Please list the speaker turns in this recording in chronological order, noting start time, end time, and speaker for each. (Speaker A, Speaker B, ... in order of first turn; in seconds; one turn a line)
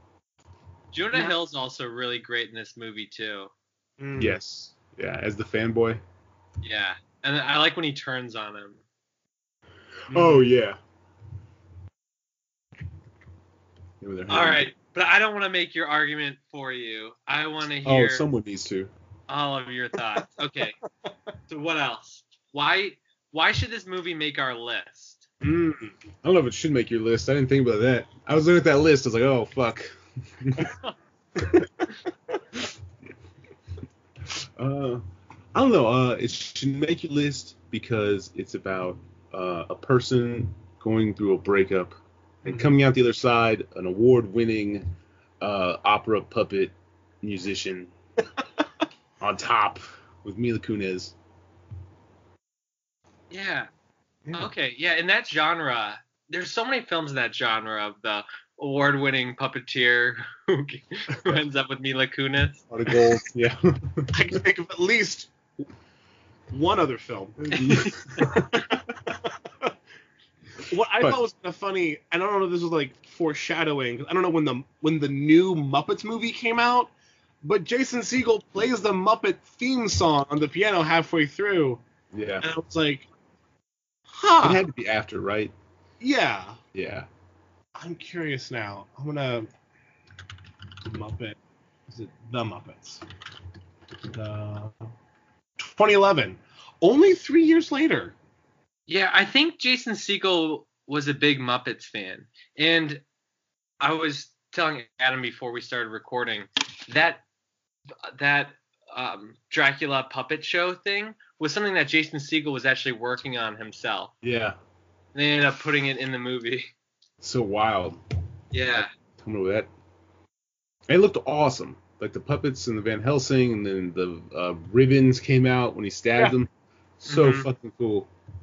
Speaker A: 0.9-3.5
Speaker B: 4.0-4.4
Speaker C: 4.2-6.0
Speaker A: 6.6-8.8
Speaker C: 10.1-10.8
Speaker B: 10.1-10.5
Speaker C: 14.0-14.7
Speaker A: 14.3-18.2
Speaker C: 17.8-18.9
Speaker A: 19.3-20.8
Speaker A: 21.5-25.3
Speaker B: 25.4-25.9
Speaker C: 26.2-30.7
Speaker C: 31.4-31.7
Speaker C: 34.3-35.0
Speaker C: 35.5-44.9
Speaker B: 42.4-42.7
Speaker C: 45.4-47.9
Speaker C: 49.2-51.1
Speaker A: 53.3-53.7
Speaker A: 54.3-62.6
Speaker C: 62.7-64.4
Speaker B: 64.1-65.3
Speaker B: 66.5-67.6
Speaker C: 67.4-68.8
Speaker A: 67.5-68.2
Speaker B: 68.2-69.7
Speaker B: 70.7-81.8
Speaker C: 82.1-82.5
Speaker B: 82.4-83.1
Speaker B: 84.1-84.6
Speaker C: 84.4-85.5
Speaker B: 86.0-86.6
Speaker C: 86.7-87.1
Speaker B: 87.7-89.5
Speaker B: 90.8-93.0
Speaker B: 94.1-94.9
Speaker B: 95.6-98.1
Speaker A: 98.9-103.0
Speaker A: 103.8-107.2
Speaker A: 108.0-114.1
Speaker C: 114.2-114.6
Speaker A: 115.1-116.7
Speaker C: 117.2-118.0
Speaker A: 118.5-118.9
Speaker C: 118.7-119.7
Speaker C: 120.9-126.5
Speaker C: 127.0-128.1
Speaker A: 127.1-127.4